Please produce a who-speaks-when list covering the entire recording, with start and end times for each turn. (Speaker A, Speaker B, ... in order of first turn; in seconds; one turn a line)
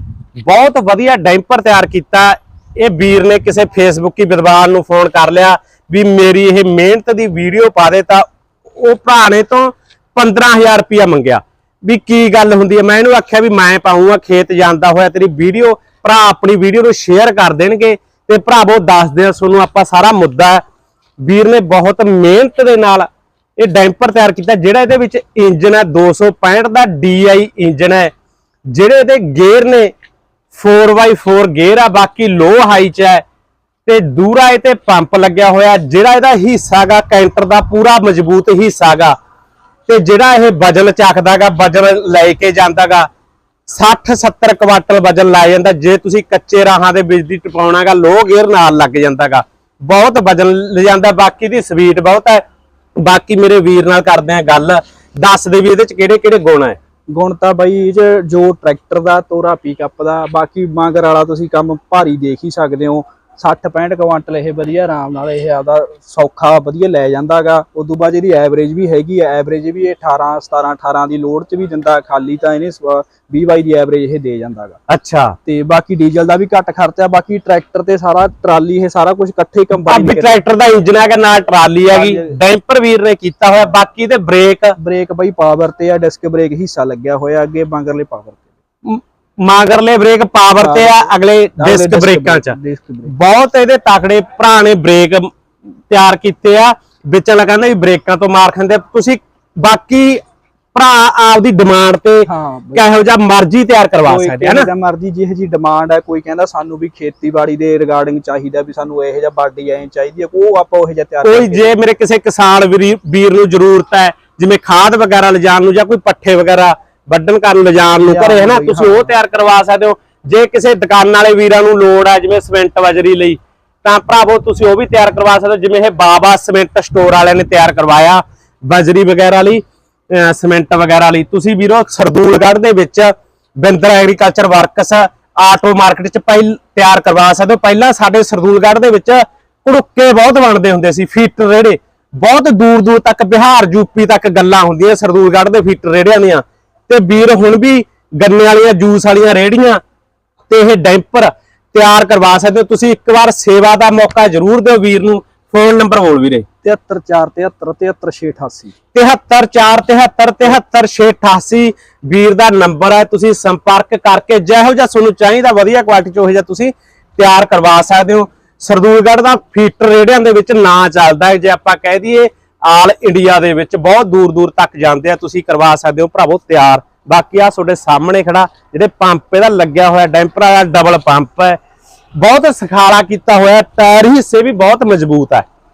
Speaker A: 0.5-8.2
Speaker A: 8.8-20.6
Speaker A: 21.2-23.1
Speaker A: 23.6-28.1
Speaker A: 28.7-29.9
Speaker A: 30.5-33.2
Speaker A: 33.9-39.1
Speaker A: 39.9-43.1
Speaker A: 43.7-52.4
Speaker A: 53.0-56.8
Speaker B: 57.1-74.8
Speaker A: 74.9-75.3
Speaker B: 75.5-80.4
Speaker A: 79.7-84.8
Speaker B: 81.9-82.4
Speaker B: 84.8-88.4
Speaker A: 88.8-92.5
Speaker B: 90.6-93.1
Speaker A: 93.1-95.3
Speaker A: 95.9-100.2
Speaker A: 100.7-104.7
Speaker B: 102.2-102.8
Speaker B: 104.0-111.7
Speaker A: 111.2-149.8
Speaker B: 118.0-119.1
Speaker A: 150.5-156.4
Speaker B: 156.6-158.7
Speaker A: 158.9-181.6
Speaker A: 182.2-185.4